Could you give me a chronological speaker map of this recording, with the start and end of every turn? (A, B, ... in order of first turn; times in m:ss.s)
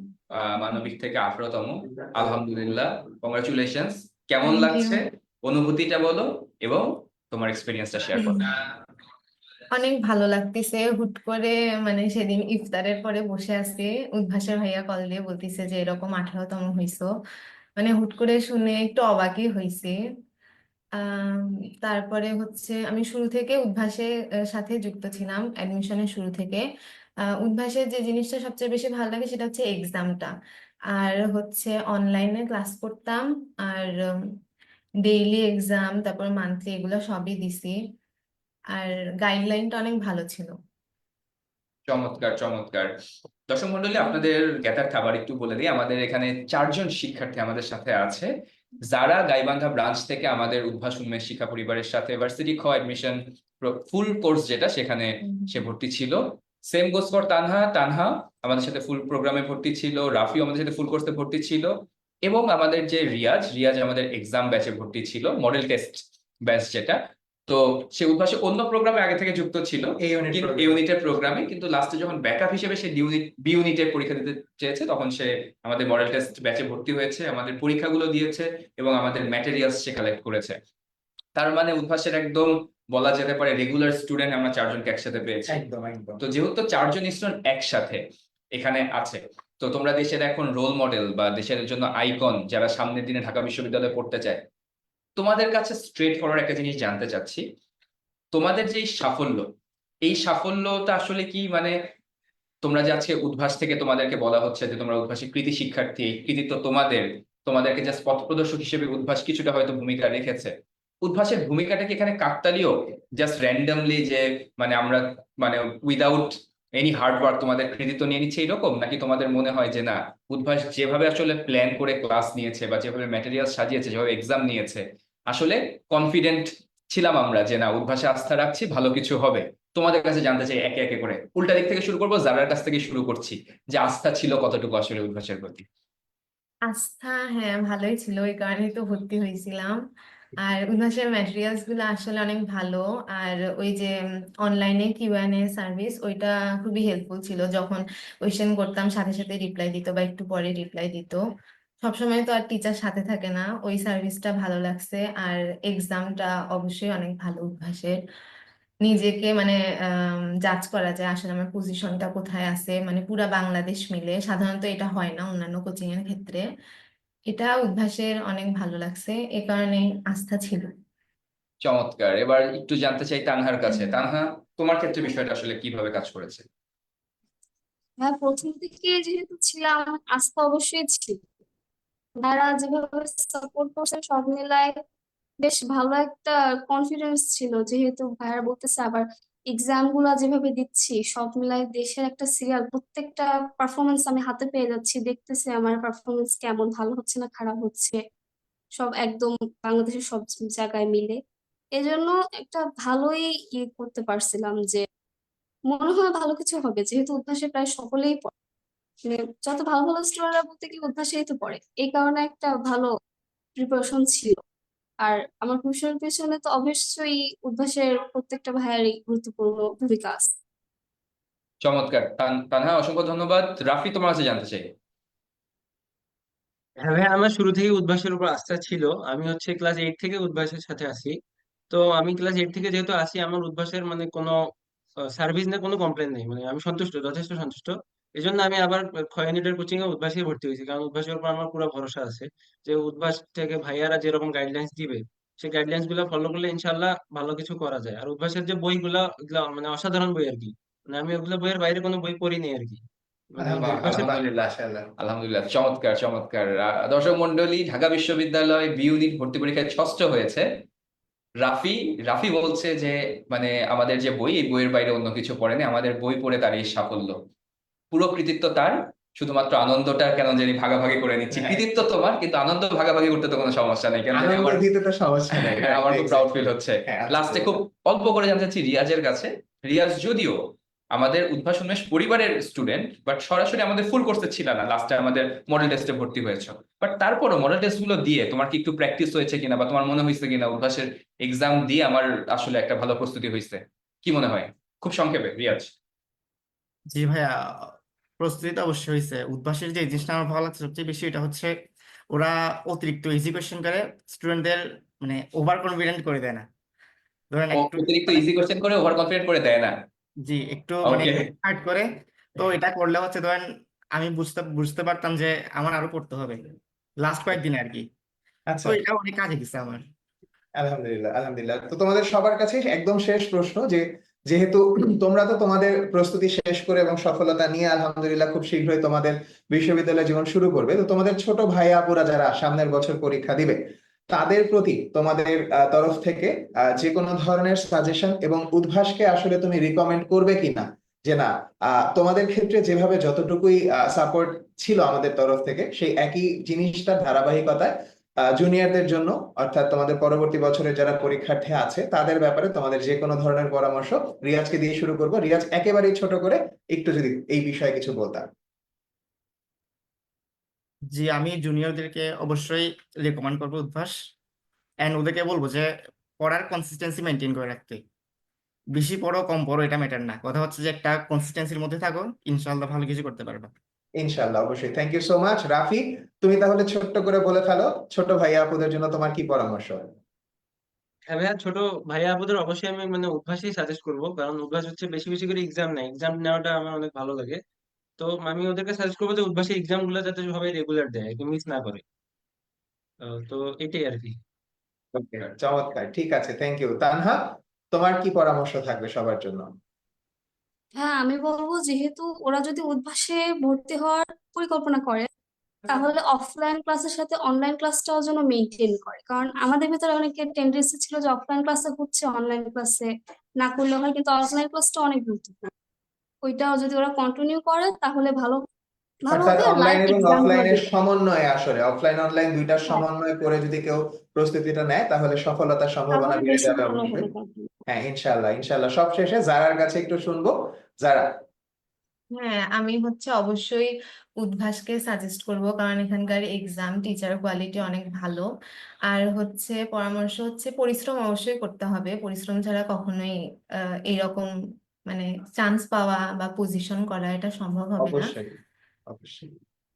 0:00.3-0:08.5 A
0:04.4-0:05.0 B
0:08.2-0:08.4 B
0:09.7-0:17.1 B
0:17.8-0:20.0 B
0:21.0-0:26.6 B
0:27.4-0:30.3 B
0:30.9-0:34.2 B
0:35.0-0:37.8 B
0:38.8-0:40.5 B
0:41.9-0:42.9 A
0:43.5-0:48.3 A
0:44.0-0:44.2 B
0:48.9-1:01.7 A
0:55.2-0:55.5 B
1:02.2-1:20.6 A
1:10.0-1:10.8 C
1:21.4-1:25.6 A
1:25.5-1:26.2 C
1:26.2-1:28.0 A
1:28.6-1:34.4 A
1:35.2-1:37.4 A
1:38.3-1:39.5 A
1:40.1-1:41.7 A
1:42.6-1:50.5 A
1:51.0-2:15.6 A
2:16.7-2:19.8 B
2:20.4-2:31.2 B
2:31.8-2:38.0 B
2:38.8-2:46.4 B
2:47.3-2:50.7 B
2:51.6-2:56.4 A
2:53.7-2:54.0 B
2:58.0-3:01.2 D
3:02.2-3:04.7 D
3:05.4-3:18.0 D
3:18.8-3:21.2 D
3:21.8-3:24.8 D
3:25.7-3:28.3 D
3:29.1-3:32.9 D
3:33.6-3:34.4 D
3:35.0-3:40.3 D
3:41.6-3:44.6 A
3:46.8-3:51.2 E
3:51.7-3:54.5 E
3:55.0-4:14.2 E
4:13.4-4:14.9 C
4:13.6-4:14.3 A
4:15.0-4:20.5 A
4:21.4-4:27.2 A
4:27.9-4:34.6 A
4:34.1-4:36.3 C
4:35.4-4:40.4 A
4:36.9-4:37.5 C
4:41.0-4:55.7 A
4:56.9-5:01.5 F
5:02.1-5:06.5 F
5:07.3-5:08.3 F
5:07.5-5:09.7 A
5:10.2-5:16.4 F
5:10.8-5:11.3 A
5:17.0-5:17.9 F
5:18.5-5:18.8 C
5:18.6-5:19.8 F
5:20.6-5:33.6 C
5:34.1-5:47.7 C
5:48.3-5:58.3 C
6:00.9-6:04.0 F
6:04.8-6:07.8 F
6:08.8-6:13.5 F
6:14.0-6:19.8 C
6:21.1-6:27.4 E
6:28.0-6:31.8 E
6:33.0-6:34.2 E
6:34.9-6:39.5 C
6:40.8-6:45.1 D
6:45.7-6:52.9 D
6:53.4-6:55.5 D
6:56.2-6:58.4 D
6:59.1-7:00.6 D
6:59.1-7:07.1 C
7:05.9-7:07.5 D
7:07.7-7:11.0 C
7:12.2-7:18.2 B
7:18.9-7:23.2 B
7:23.9-7:24.3 B
7:24.9-7:28.1 B
7:27.8-7:28.4 C
7:28.9-7:29.3 C